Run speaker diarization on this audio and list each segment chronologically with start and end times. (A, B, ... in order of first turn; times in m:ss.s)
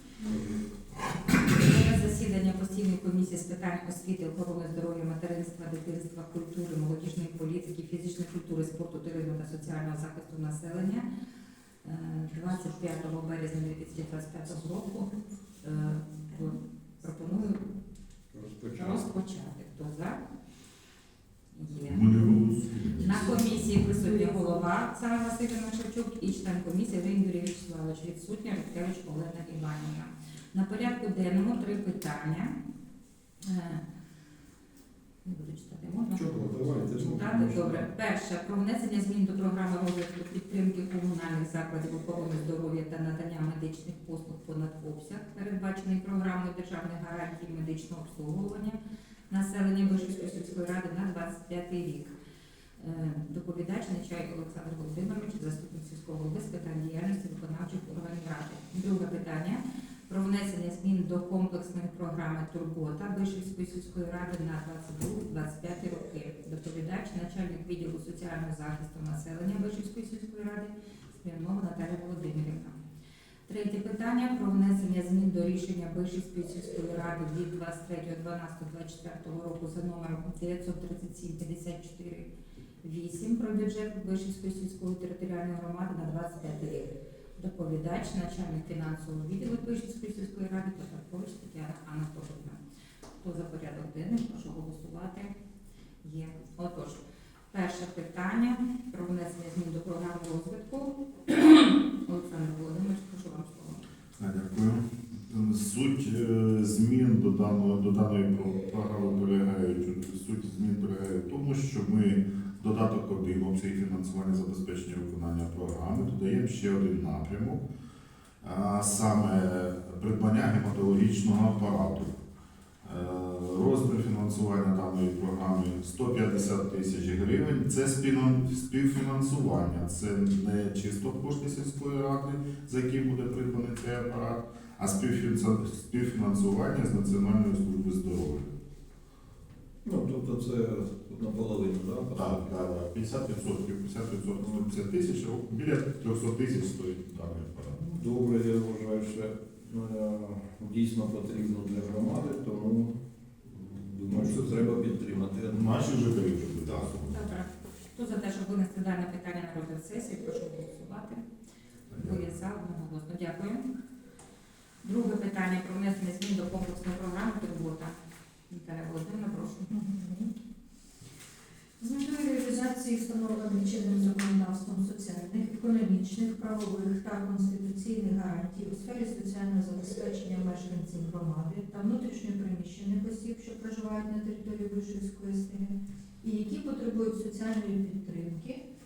0:00.3-0:00.6 A
0:01.4-0:11.1 B
0:11.8-0:15.1 B
0:15.6-0:17.7 B
0:18.3-0:19.0 A
0:18.7-0:20.2 B
0:21.5-0:32.5 B
0:21.8-0:23.9 C
0:33.4-0:33.8 B
0:35.2-0:36.3 B
0:36.1-0:37.9 A
0:36.9-0:48.8 B
0:49.3-0:52.1 B
0:52.8-1:12.8 B
1:13.5-1:22.3 B
1:22.8-1:32.6 B
1:33.2-1:35.3 B
1:36.0-1:43.8 B
1:44.2-1:57.6 C
1:58.4-2:02.2 C
2:02.8-2:18.5 C
2:19.8-2:22.4 A
2:22.1-2:27.8 C
2:27.7-2:36.0 A
2:34.1-2:34.5 C
2:35.5-2:37.2 C
2:36.6-2:36.9 A
2:37.1-2:41.2 B
2:41.9-2:42.2 C
2:41.9-2:43.6 B
2:44.8-2:48.0 B
2:48.5-2:49.8 B
2:49.7-2:50.3 D
2:51.8-3:08.6 D